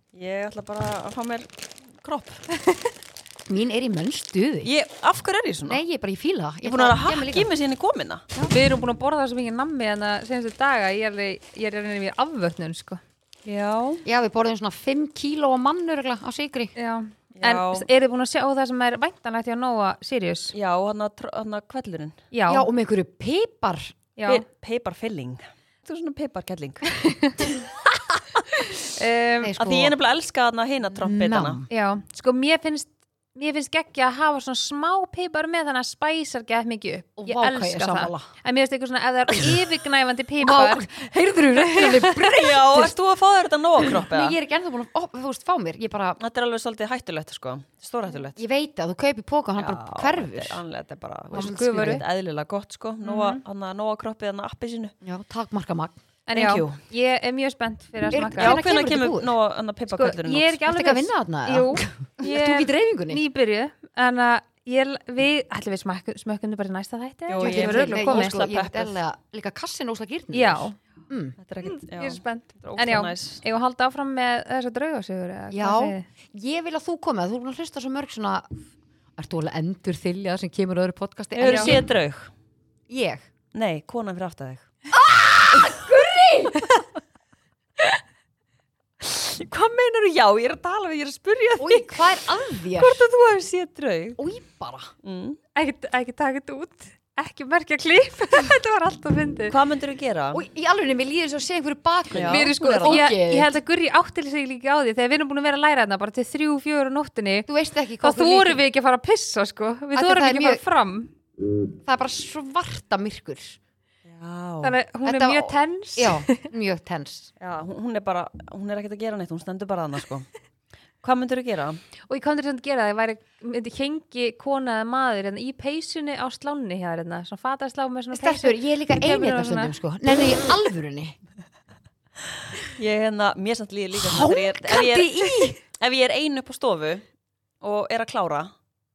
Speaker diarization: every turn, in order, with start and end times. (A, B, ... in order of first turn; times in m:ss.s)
0:00.1-0:02.4 A
0:03.5-0:04.7 B
0:04.6-0:05.8 A
0:05.6-0:07.5 B
0:06.6-0:08.3 A
0:08.5-0:13.0 C
0:13.4-0:14.0 A
0:14.0-0:16.7 B
0:16.8-0:20.5 C
0:17.3-0:17.9 A
0:20.5-0:22.2 A
0:22.3-0:22.7 C
0:22.5-0:23.9 B
0:24.2-0:24.4 C
0:24.2-0:27.0 A
0:27.0-0:27.5 C
0:28.2-0:28.4 A
0:28.8-0:29.5 C
0:29.4-0:29.9 B
0:29.6-0:31.6 A
0:30.9-0:31.7 B
0:31.7-0:40.8 C
0:37.2-0:38.3 B
0:40.4-0:43.0 B
0:41.7-0:44.4 A
0:43.8-0:46.2 B
0:46.2-0:48.4 A
0:48.4-0:50.6 B
0:49.6-0:54.9 A
0:51.3-0:52.0 B
0:51.3-0:52.0 C
0:53.0-0:53.4 C
0:55.0-0:56.0 B
0:56.3-0:58.6 C
0:56.3-0:56.8 A
0:58.1-0:59.3 B
0:58.4-1:00.6 A
0:59.9-1:08.4 C
1:00.6-1:03.2 B
1:07.3-1:08.9 A
1:07.4-1:11.4 B
1:10.3-1:10.8 C
1:11.4-1:13.4 A
1:11.6-1:16.0 C
1:15.5-1:18.6 B
1:19.2-1:21.9 B
1:21.4-1:22.3 A
1:21.4-1:21.8 C
1:22.9-1:23.3 B
1:23.5-1:24.7 A
1:24.9-1:26.8 B
1:25.5-1:26.0 A
1:29.0-1:34.2 A
1:31.6-1:33.0 B
1:34.2-1:34.9 B
1:35.0-1:35.4 A
1:35.5-1:39.6 C
1:39.5-1:40.4 A
1:40.3-1:43.5 B
1:42.1-1:43.0 A
1:42.3-1:47.5 C
1:47.5-1:48.6 B
1:48.0-1:51.1 C
1:49.9-1:50.6 B
1:51.8-1:53.6 B
1:54.0-1:54.8 A
1:54.6-1:56.5 C
1:55.0-1:57.3 B
1:57.4-2:00.3 A
2:01.0-2:01.8 A
2:02.1-2:09.7 C
2:08.1-2:11.2 B
2:12.6-2:17.0 A
2:13.9-2:15.6 B
2:17.6-2:18.5 A